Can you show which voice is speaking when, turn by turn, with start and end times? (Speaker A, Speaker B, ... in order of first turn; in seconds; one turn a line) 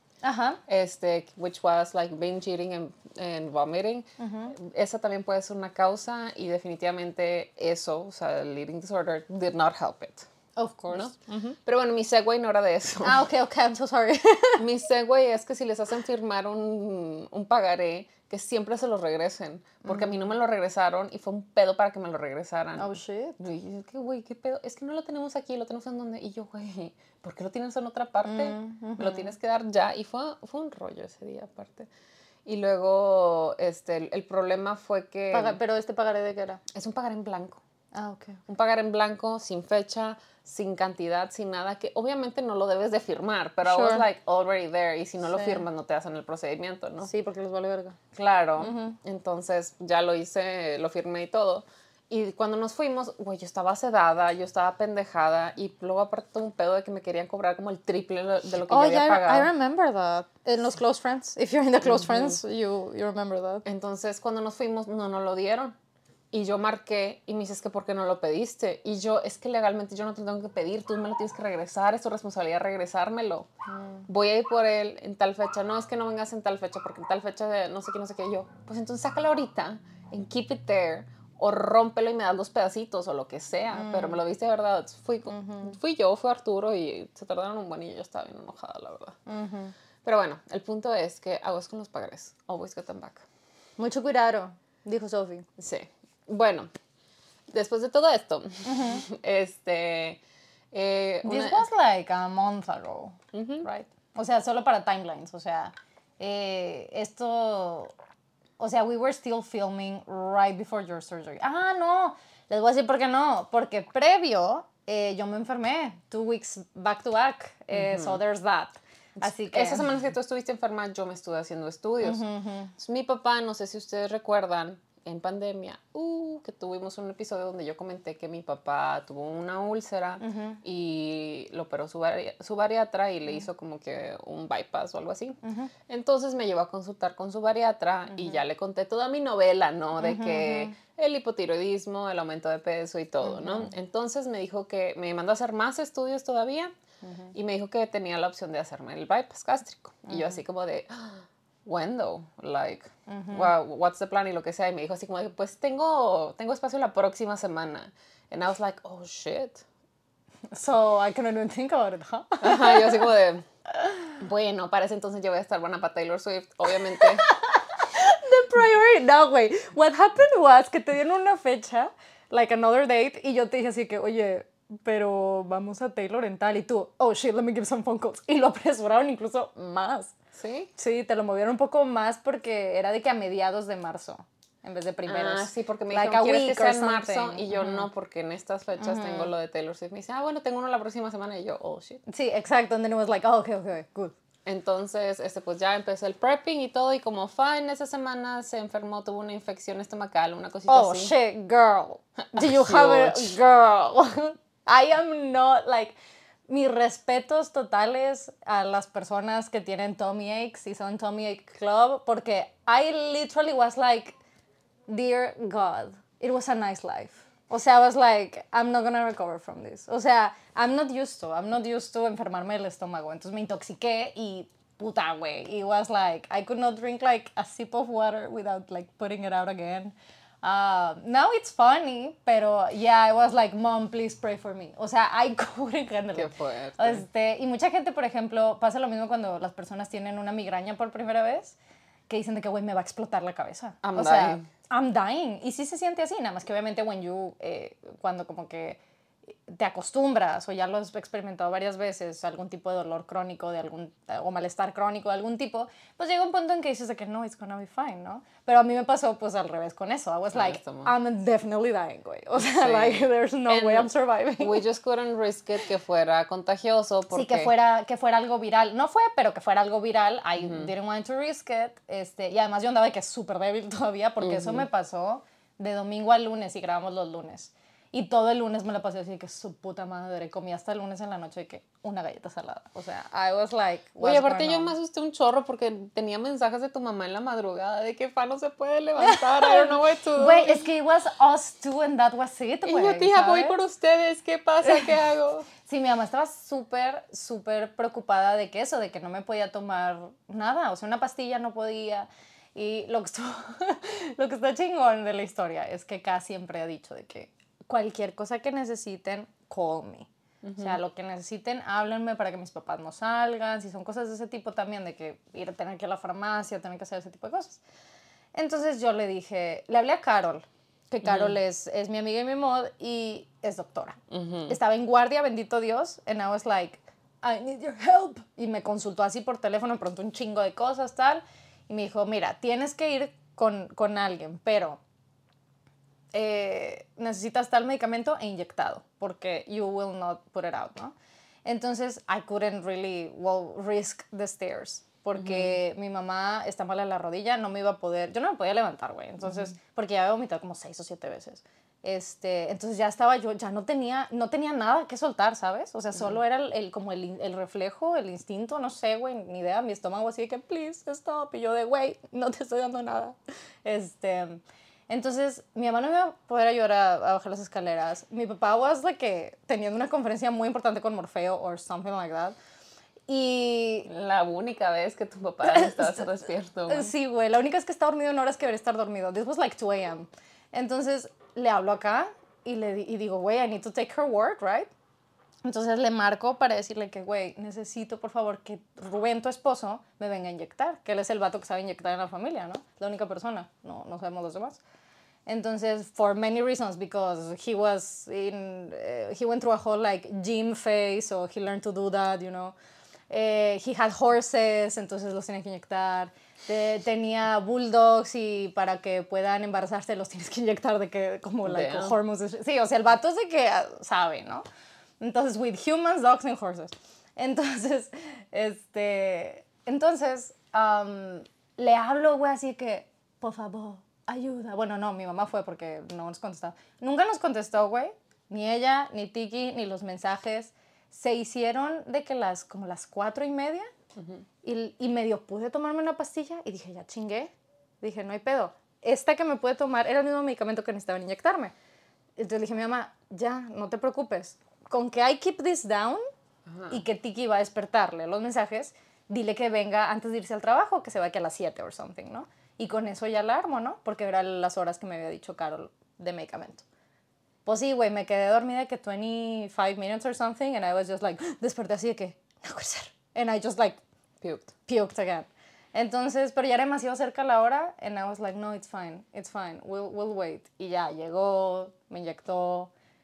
Speaker A: 0.2-0.6
Speaker B: 0.7-10.3
Speaker A: 4.2-4.5
Speaker A: 10.6-11.6
Speaker B: 11.6-13.2
Speaker A: 13.0-14.6
Speaker B: 14.6-31.9
Speaker A: 19.8-20.3
Speaker A: 22.8-23.4
Speaker A: 28.2-29.3
Speaker B: 32.5-35.6
Speaker A: 35.3-36.6
Speaker B: 36.7-37.6
Speaker A: 37.9-38.4
Speaker B: 38.5-47.1
Speaker A: 43.6-44.0
Speaker A: 45.3-45.6
Speaker A: 47.0-48.0
Speaker B: 48.1-59.5
Speaker A: 48.6-49.0
Speaker A: 58.7-63.6
Speaker B: 61.8-62.4
Speaker B: 63.6-65.7
Speaker B: 66.3-73.5
Speaker A: 73.7-74.0
Speaker B: 74.1-89.2
Speaker A: 83.7-84.2
Speaker A: 85.3-85.8
Speaker A: 89.3-89.7
Speaker B: 90.0-93.2
Speaker A: 93.8-95.5
Speaker B: 95.6-96.7
Speaker B: 97.5-100.2
Speaker A: 98.6-99.0
Speaker B: 100.7-101.7
Speaker A: 101.2-107.9
Speaker B: 103.3-103.7
Speaker A: 108.6-119.9
Speaker B: 117.7-118.2
Speaker B: 119.2-122.2
Speaker A: 122.0-122.7
Speaker B: 122.8-146.7
Speaker A: 130.2-130.6
Speaker A: 135.4-135.7
Speaker A: 138.1-138.4
Speaker A: 140.0-140.7
Speaker A: 143.2-143.7
Speaker A: 147.0-147.3
Speaker B: 147.3-159.6
Speaker A: 150.1-150.4
Speaker A: 153.1-153.5
Speaker A: 160.5-163.1
Speaker B: 162.4-163.4
Speaker B: 164.2-167.3
Speaker A: 167.0-180.1
Speaker B: 180.3-180.7
Speaker A: 180.8-187.9
Speaker B: 185.1-192.0
Speaker A: 188.8-189.3
Speaker A: 192.1-194.1
Speaker B: 194.4-201.1
Speaker A: 200.7-205.9
Speaker B: 202.2-203.3
Speaker A: 206.5-214.2
Speaker A: 214.9-241.6
Speaker B: 236.1-237.0
Speaker A: 242.1-248.8
Speaker B: 243.8-244.5
Speaker A: 249.4-264.6
Speaker B: 260.3-260.9
Speaker B: 262.4-267.5
Speaker A: 267.1-284.7
Speaker B: 270.4-270.7
Speaker B: 274.2-274.6
Speaker B: 284.0-290.7
Speaker A: 289.0-293.6
Speaker B: 292.6-295.5
Speaker A: 294.6-294.9
Speaker A: 295.6-317.6
Speaker B: 310.4-310.8
Speaker A: 318.3-324.0
Speaker B: 321.0-321.3
Speaker B: 324.1-324.6
Speaker A: 324.5-334.8
Speaker A: 336.1-340.9
Speaker A: 341.4-372.4
Speaker B: 345.1-345.6
Speaker A: 373.1-373.9
Speaker B: 373.9-376.9
Speaker A: 375.4-376.1
Speaker A: 376.7-384.7
Speaker A: 385.4-394.6
Speaker A: 395.2-402.6
Speaker A: 403.1-414.4
Speaker B: 411.4-411.9
Speaker A: 415.0-433.7
Speaker B: 434.0-434.2
Speaker A: 434.4-441.5
Speaker A: 442.2-446.0
Speaker B: 446.5-446.8
Speaker A: 446.7-456.6
Speaker A: 457.4-463.8
Speaker B: 464.2-464.5
Speaker A: 464.6-472.7